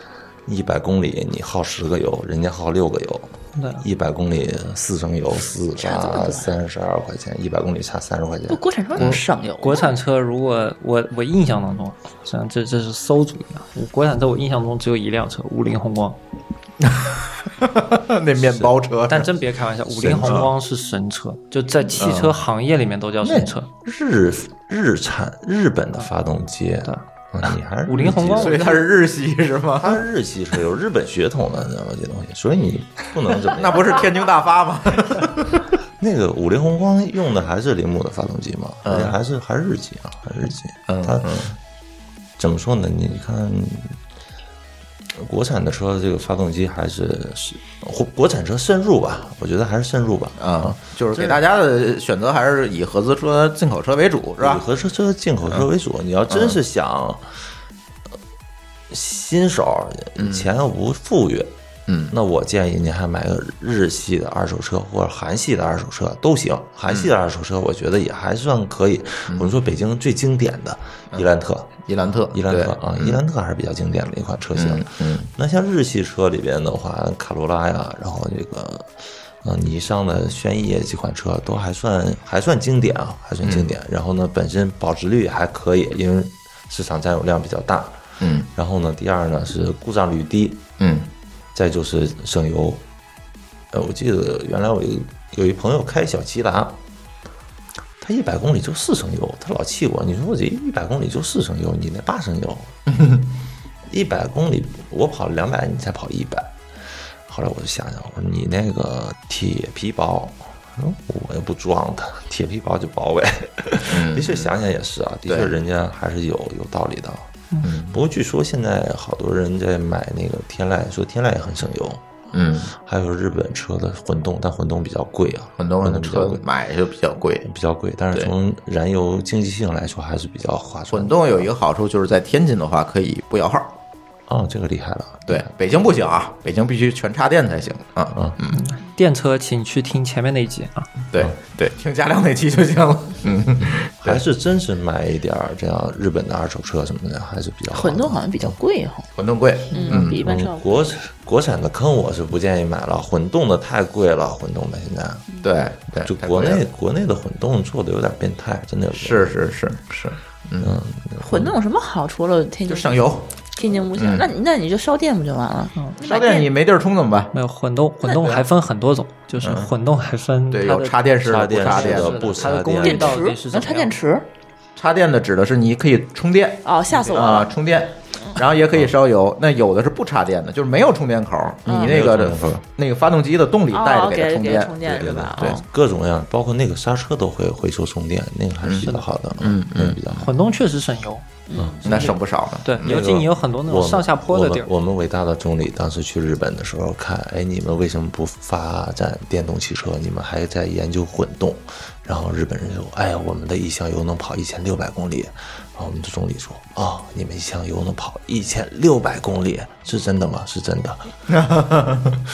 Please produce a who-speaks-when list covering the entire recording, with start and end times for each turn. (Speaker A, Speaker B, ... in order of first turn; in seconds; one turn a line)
Speaker A: 0.5-9.2
Speaker B: 3.5-3.8
Speaker C: 5.8-6.5
Speaker C: 8.5-9.9
Speaker B: 9.6-16.2
Speaker D: 16.8-19.3
Speaker A: 18.4-18.7
Speaker B: 19.1-23.7
Speaker A: 19.9-20.5
Speaker D: 20.2-20.5
Speaker D: 22.0-22.4
Speaker A: 23.2-28.8
Speaker B: 27.8-28.6
Speaker D: 28.3-30.1
Speaker A: 29.8-34.0
Speaker D: 33.4-35.7
Speaker A: 36.0-41.4
Speaker D: 38.8-39.2
Speaker D: 40.9-41.5
Speaker A: 42.4-44.0
Speaker A: 45.1-51.4
Speaker D: 50.4-54.6
Speaker A: 54.4-57.3
Speaker D: 56.3-56.6
Speaker A: 58.9-61.5
Speaker D: 60.2-60.5
Speaker D: 61.9-62.1
Speaker A: 62.1-71.7
Speaker D: 66.9-67.1
Speaker D: 71.1-73.2
Speaker A: 72.3-90.7
Speaker D: 74.5-75.3
Speaker D: 83.4-83.7
Speaker D: 88.2-88.5
Speaker D: 90.8-91.1
Speaker A: 91.5-92.8
Speaker A: 93.7-96.8
Speaker A: 98.0-102.8
Speaker A: 103.9-106.6
Speaker A: 107.2-117.3
Speaker D: 113.8-114.5
Speaker D: 115.2-115.5
Speaker D: 117.6-118.0
Speaker A: 117.9-126.4
Speaker D: 122.3-122.7
Speaker D: 125.6-127.5
Speaker A: 127.4-131.5
Speaker D: 130.9-133.8
Speaker A: 134.3-135.4
Speaker D: 135.3-138.6
Speaker B: 138.5-140.9
Speaker D: 141.1-144.2
Speaker A: 144.0-148.6
Speaker C: 147.7-149.1
Speaker D: 149.2-150.2
Speaker C: 149.7-150.9
Speaker A: 149.9-155.2
Speaker D: 155.4-156.6
Speaker A: 156.0-159.5
Speaker D: 158.9-160.7
Speaker A: 160.6-161.5
Speaker C: 161.2-166.5
Speaker D: 162.7-164.3
Speaker D: 166.0-167.3
Speaker B: 167.3-173.9
Speaker C: 168.0-168.4
Speaker D: 169.4-169.7
Speaker D: 170.5-172.2
Speaker A: 171.2-173.3
Speaker C: 172.8-174.3
Speaker D: 174.8-185.6
Speaker C: 176.6-177.5
Speaker C: 181.7-182.0
Speaker A: 181.7-182.6
Speaker C: 183.7-185.6
Speaker A: 184.8-190.3
Speaker D: 188.6-190.0
Speaker B: 188.8-189.1
Speaker B: 190.1-191.2
Speaker C: 191.5-191.8
Speaker A: 191.6-192.1
Speaker D: 191.8-193.0
Speaker B: 191.9-194.7
Speaker A: 192.8-211.1
Speaker D: 211.3-212.2